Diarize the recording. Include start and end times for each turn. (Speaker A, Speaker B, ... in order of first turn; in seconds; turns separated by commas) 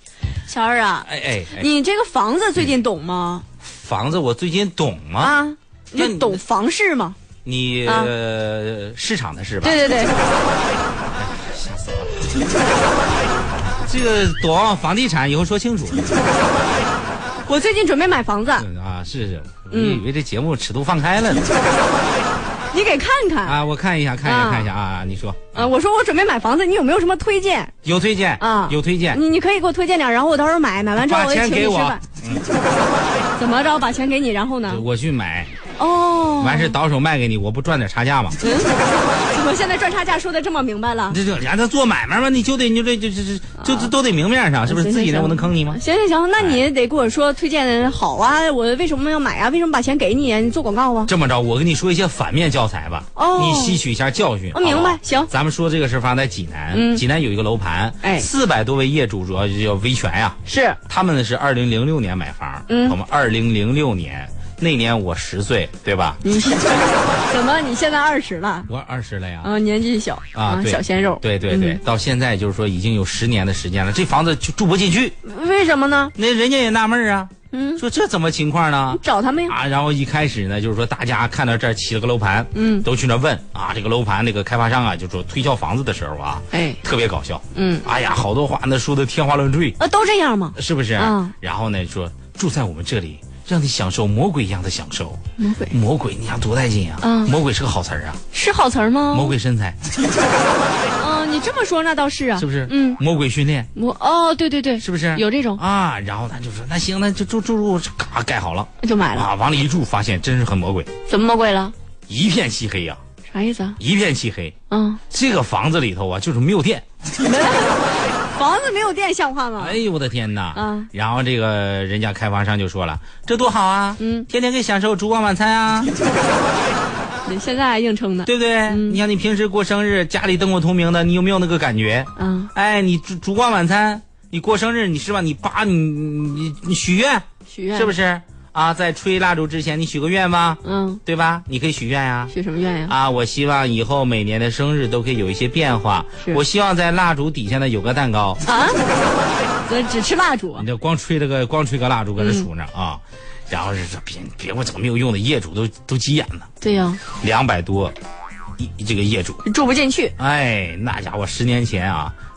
Speaker A: 0.5-3.5, Speaker B: 1.1-1.7, Speaker B: 3.6-5.4, Speaker A: 5.2-7.2, Speaker B: 6.0-6.4, Speaker B: 7.5-9.8, Speaker A: 7.8-8.1, Speaker A: 9.6-10.2, Speaker B: 11.2-12.3, Speaker B: 13.9-16.1, Speaker A: 17.4-18.7, Speaker B: 18.6-21.5, Speaker A: 19.7-20.0, Speaker A: 22.7-23.6, Speaker B: 23.4-25.7, Speaker A: 24.2-24.7, Speaker A: 25.6-27.7, Speaker B: 27.8-29.2, Speaker A: 28.4-32.0, Speaker B: 31.0-32.5, Speaker A: 33.4-34.8, Speaker B: 34.7-35.5, Speaker A: 35.8-36.8, Speaker B: 36.4-38.4, Speaker A: 38.4-41.2, Speaker B: 41.1-45.8, Speaker A: 43.6-43.9, Speaker A: 44.6-51.1, Speaker B: 46.4-46.6, Speaker B: 51.1-66.2, Speaker A: 53.1-53.8, Speaker A: 54.5-55.3, Speaker A: 56.7-57.0, Speaker A: 58.0-58.3, Speaker A: 60.5-60.8, Speaker A: 62.7-63.0, Speaker A: 66.2-68.7, Speaker B: 68.7-69.5, Speaker A: 69.4-71.8, Speaker B: 70.3-75.2, Speaker A: 75.2-76.1, Speaker B: 76.2-89.8, Speaker A: 77.5-77.8, Speaker A: 78.9-79.5, Speaker A: 82.5-82.9, Speaker A: 86.5-86.8, Speaker A: 87.5-87.9, Speaker A: 89.8-91.3, Speaker B: 90.6-98.2, Speaker A: 95.4-95.7, Speaker A: 97.0-97.3, Speaker A: 98.3-99.3, Speaker B: 99.1-99.8, Speaker A: 101.0-103.0, Speaker B: 102.4-103.7, Speaker A: 103.8-105.6, Speaker B: 104.8-110.9, Speaker A: 108.8-109.3, Speaker A: 111.1-111.7, Speaker B: 112.1-113.0, Speaker A: 113.3-113.8, Speaker B: 113.8-114.5, Speaker A: 114.7-115.0, Speaker B: 115.1-116.8, Speaker A: 117.2-119.8, Speaker B: 119.6-125.9, Speaker A: 120.5-120.9, Speaker A: 124.0-124.3, Speaker A: 127.2-129.0, Speaker B: 128.2-142.3, Speaker A: 132.2-132.5, Speaker A: 137.5-137.9, Speaker A: 140.6-141.0, Speaker A: 142.3-142.9, Speaker B: 142.9-148.4, Speaker A: 148.5-148.8, Speaker A: 149.7-150.7, Speaker B: 150.6-156.5, Speaker A: 152.2-152.5, Speaker A: 156.6-157.0, Speaker B: 157.2-157.9, Speaker B: 158.6-159.4, Speaker A: 159.4-160.2, Speaker B: 160.2-162.2